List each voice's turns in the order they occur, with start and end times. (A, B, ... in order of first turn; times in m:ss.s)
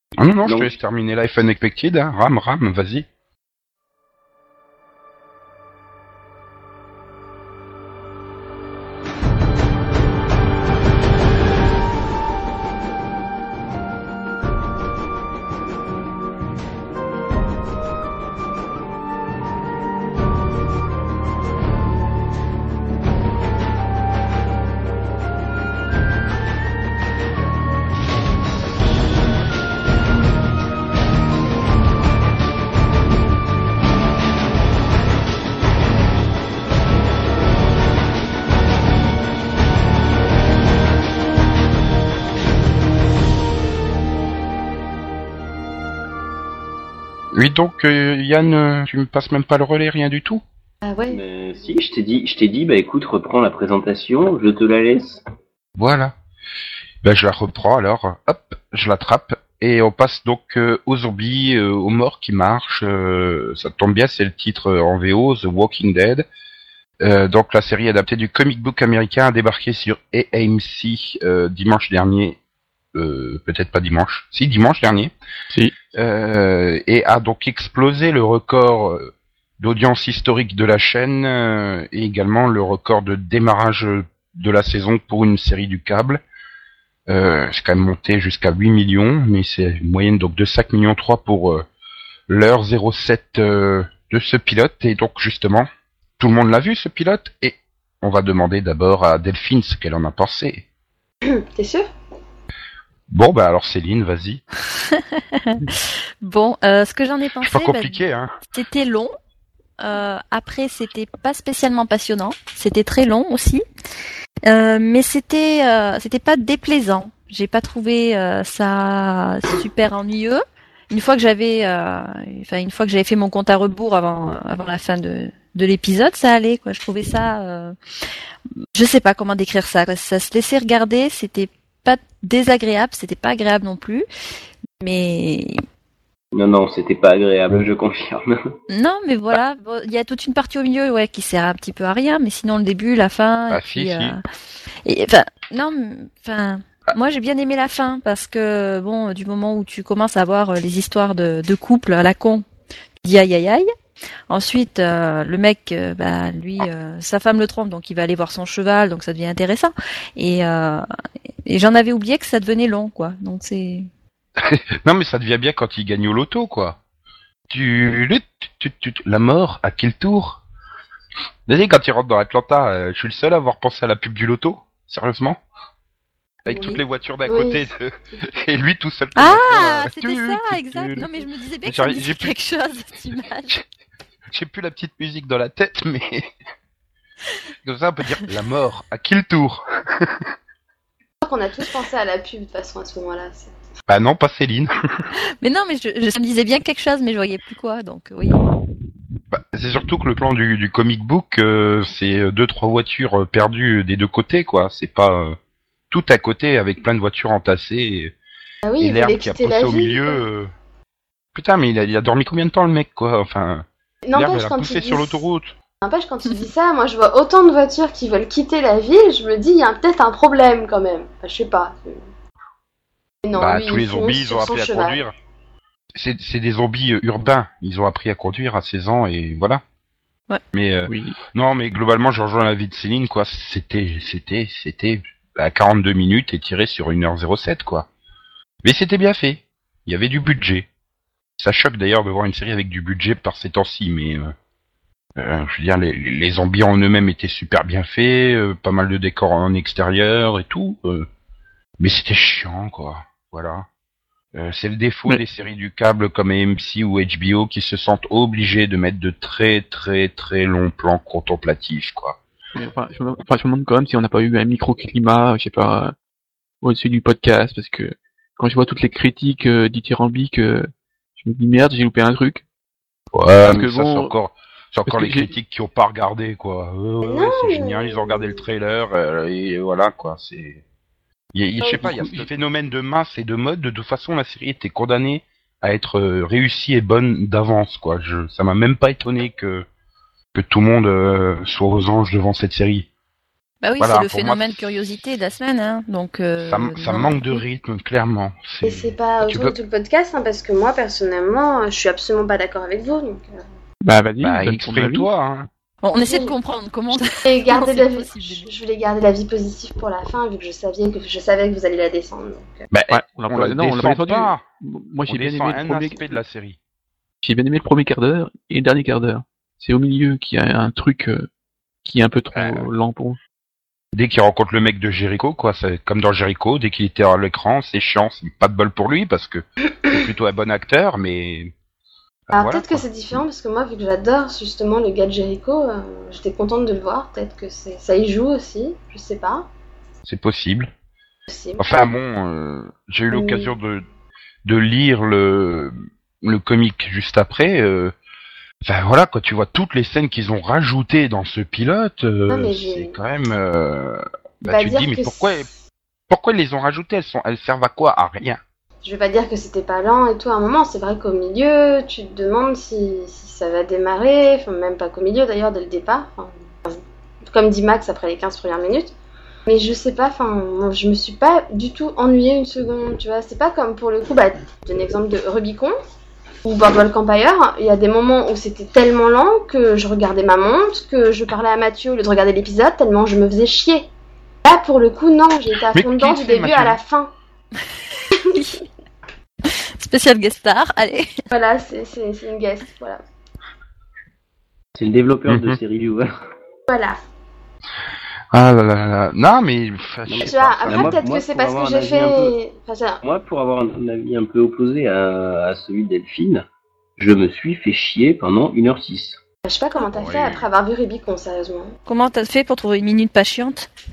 0:00.2-0:03.0 A
0:00.4-0:00.7 B
0:47.3-0:50.4 A
0:50.8-0:51.2 C
0:51.1-0:55.2 B
0:55.8-0:56.1 A
0:57.0-1:06.3 A
1:07.0-1:12.4 A
1:12.9-1:15.1 A
1:15.9-1:26.2 A
1:27.1-1:31.7 A
1:32.3-1:35.7 A
1:36.2-1:40.6 A
1:41.3-1:41.9 C
1:43.1-1:44.4 A
1:44.7-1:49.1 D
1:47.4-1:48.4 A
1:49.8-1:53.6 D
1:54.4-2:07.8 D
2:08.7-2:14.0 D
2:14.8-2:15.6 D
2:16.3-2:18.3 B
2:18.7-2:24.2 D
2:23.5-2:24.1 A
2:24.8-2:32.4 D
2:33.0-2:33.7 D
2:34.3-2:40.9 D
2:41.4-2:43.9 D
2:44.4-2:46.8 A
2:47.5-2:50.4 A
2:51.5-2:55.4 A
2:56.4-3:01.1 A
2:56.5-2:56.8 D
2:57.2-2:57.6 C
2:59.2-3:03.6 D
3:01.6-3:02.3 A
3:04.3-3:06.3 A
3:07.6-3:10.3 A
3:11.2-3:13.5 C
3:13.9-3:14.7 A
3:15.4-3:18.6 D
3:19.3-3:25.4 A
3:25.9-3:28.1 A
3:28.6-3:30.2 C
3:28.8-3:30.5 A
3:31.3-3:35.5 A
3:34.0-3:35.2 C
3:35.8-3:42.0 C
3:43.2-3:45.0 C
3:43.4-3:45.1 A
3:45.9-3:49.6 A
3:50.5-3:57.9 A
3:50.9-3:51.2 E
3:58.6-4:00.7 A
4:01.4-4:04.3 A
4:05.2-4:11.1 A
4:11.8-4:13.7 A
4:14.3-4:22.2 A
4:22.5-4:25.9 E
4:26.6-4:32.4 E
4:33.1-4:40.6 A
4:33.4-4:34.1 E
4:34.9-4:35.3 E
4:37.0-4:38.4 C
4:41.3-4:49.6 A
4:41.8-4:42.3 E
4:50.3-4:52.9 A
4:53.6-4:57.4 D
4:53.8-4:54.8 A
4:56.4-4:59.6 A
4:58.6-5:03.4 C
5:03.8-5:05.1 E
5:04.2-5:05.5 A
5:05.8-5:08.5 D
5:06.0-5:06.4 C
5:06.9-5:12.6 C
5:12.7-5:14.4 A
5:12.9-5:16.2 E
5:15.1-5:16.6 A
5:17.2-5:21.3 E
5:21.8-5:23.2 E
5:22.3-5:22.7 A
5:23.9-5:31.5 A
5:32.3-5:32.8 A
5:32.3-5:39.5 C
5:40.0-5:40.7 A
5:41.3-5:41.7 C
5:41.6-5:43.8 A
5:43.1-5:43.5 C
5:44.4-5:47.9 A
5:48.6-5:55.5 A
5:52.3-5:53.0 C
5:54.4-5:55.3 C
5:56.1-5:58.4 A
5:58.8-6:08.9 C
6:09.5-6:15.7 C
6:16.4-6:23.9 C
6:24.4-6:27.1 C
6:25.7-6:26.8 A
6:28.1-6:28.5 C
6:28.3-6:28.6 D
6:29.5-6:31.1 D
6:31.3-6:33.0 C
6:34.8-6:36.1 B
6:35.3-6:35.6 A
6:36.7-6:37.0 C
6:38.3-6:41.0 A
6:40.1-6:42.4 B
6:40.2-6:43.0 C
6:43.0-6:46.4 B
6:47.0-6:49.2 B
6:49.4-6:51.8 C
6:49.9-6:50.5 A
6:51.9-6:53.7 D